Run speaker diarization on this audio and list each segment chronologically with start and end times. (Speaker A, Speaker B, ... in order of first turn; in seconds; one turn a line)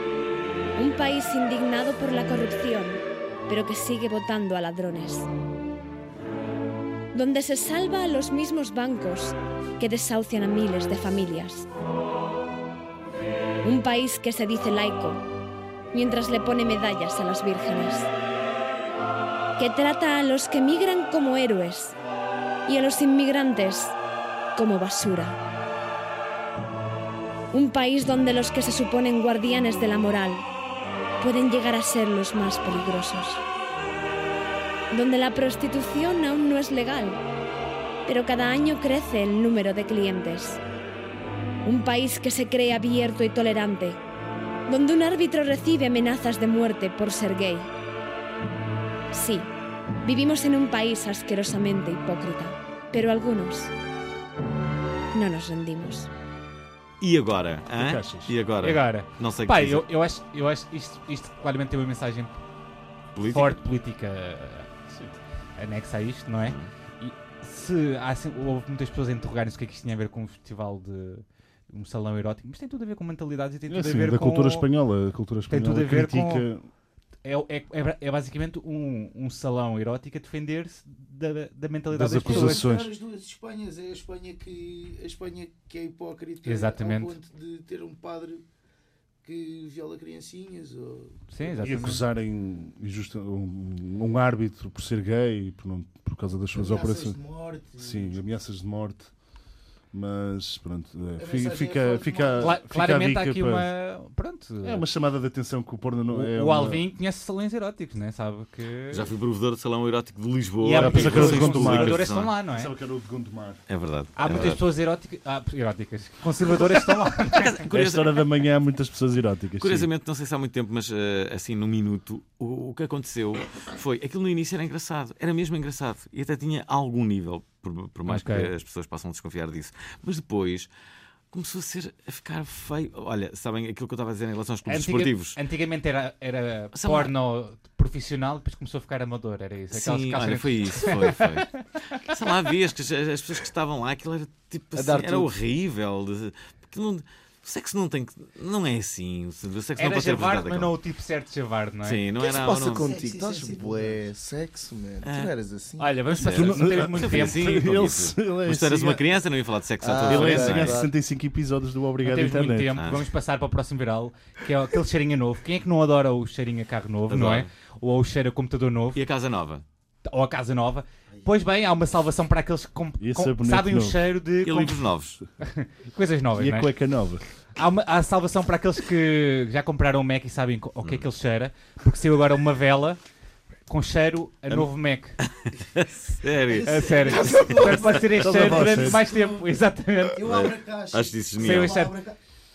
Speaker A: 0.8-5.3
Speaker A: 7.1-11.7
Speaker A: 13.6-15.2
Speaker A: 15.9-18.1
Speaker A: 19.6-22.0
Speaker A: 22.7-23.9
Speaker A: 24.6-25.4
Speaker A: 27.5-30.5
Speaker A: 31.2-33.4
Speaker A: 34.9-37.2
Speaker A: 38.1-40.6
Speaker A: 41.6-44.0
Speaker A: 44.7-47.7
Speaker A: 49.1-49.5
Speaker A: 50.0-53.7
Speaker A: 55.1-56.1
Speaker B: 57.0-59.9
Speaker C: 57.8-58.3
Speaker D: 58.6-62.4
Speaker B: 63.1-63.6
Speaker D: 63.3-64.7
Speaker C: 64.9-65.2
Speaker D: 65.6-74.7
Speaker C: 73.7-76.6
Speaker D: 75.5-76.5
Speaker D: 77.2-82.7
Speaker C: 81.9-82.9
Speaker E: 82.2-88.4
Speaker D: 86.5-87.1
Speaker E: 89.2-91.5
Speaker D: 91.3-92.0
Speaker C: 91.6-97.2
Speaker E: 96.5-98.2
Speaker C: 97.8-99.1
Speaker C: 99.9-103.7
Speaker E: 101.2-102.6
Speaker D: 102.4-104.8
Speaker C: 104.6-106.8
Speaker D: 106.1-109.1
Speaker B: 108.9-112.3
Speaker D: 110.6-112.7
Speaker C: 110.8-113.6
Speaker B: 113.7-114.6
Speaker D: 114.2-117.6
Speaker B: 117.3-118.1
Speaker C: 117.7-119.9
Speaker B: 119.6-130.7
Speaker D: 128.1-128.5
Speaker B: 131.3-135.4
Speaker D: 134.7-141.3
Speaker B: 136.7-137.1
Speaker B: 139.7-150.7
Speaker F: 144.7-145.3
Speaker D: 149.8-152.0
Speaker B: 151.8-152.9
Speaker F: 152.2-155.9
Speaker E: 152.4-154.0
Speaker B: 155.0-155.3
Speaker D: 155.8-157.6
Speaker B: 156.1-160.9
Speaker C: 156.2-159.0
Speaker F: 159.8-160.9
Speaker C: 160.1-162.7
Speaker D: 162.0-169.0
Speaker B: 162.8-163.0
Speaker B: 167.1-167.5
Speaker B: 168.9-169.6
Speaker D: 170.1-174.8
Speaker C: 173.0-174.0
Speaker B: 174.4-175.2
Speaker D: 175.4-176.7
Speaker C: 176.3-177.2
Speaker D: 177.6-183.0
Speaker D: 183.7-185.1
Speaker B: 185.2-187.8
Speaker E: 186.5-189.4
Speaker D: 186.7-190.2
Speaker C: 188.2-189.0
Speaker E: 190.1-192.2
Speaker B: 190.2-191.9
Speaker D: 191.4-191.9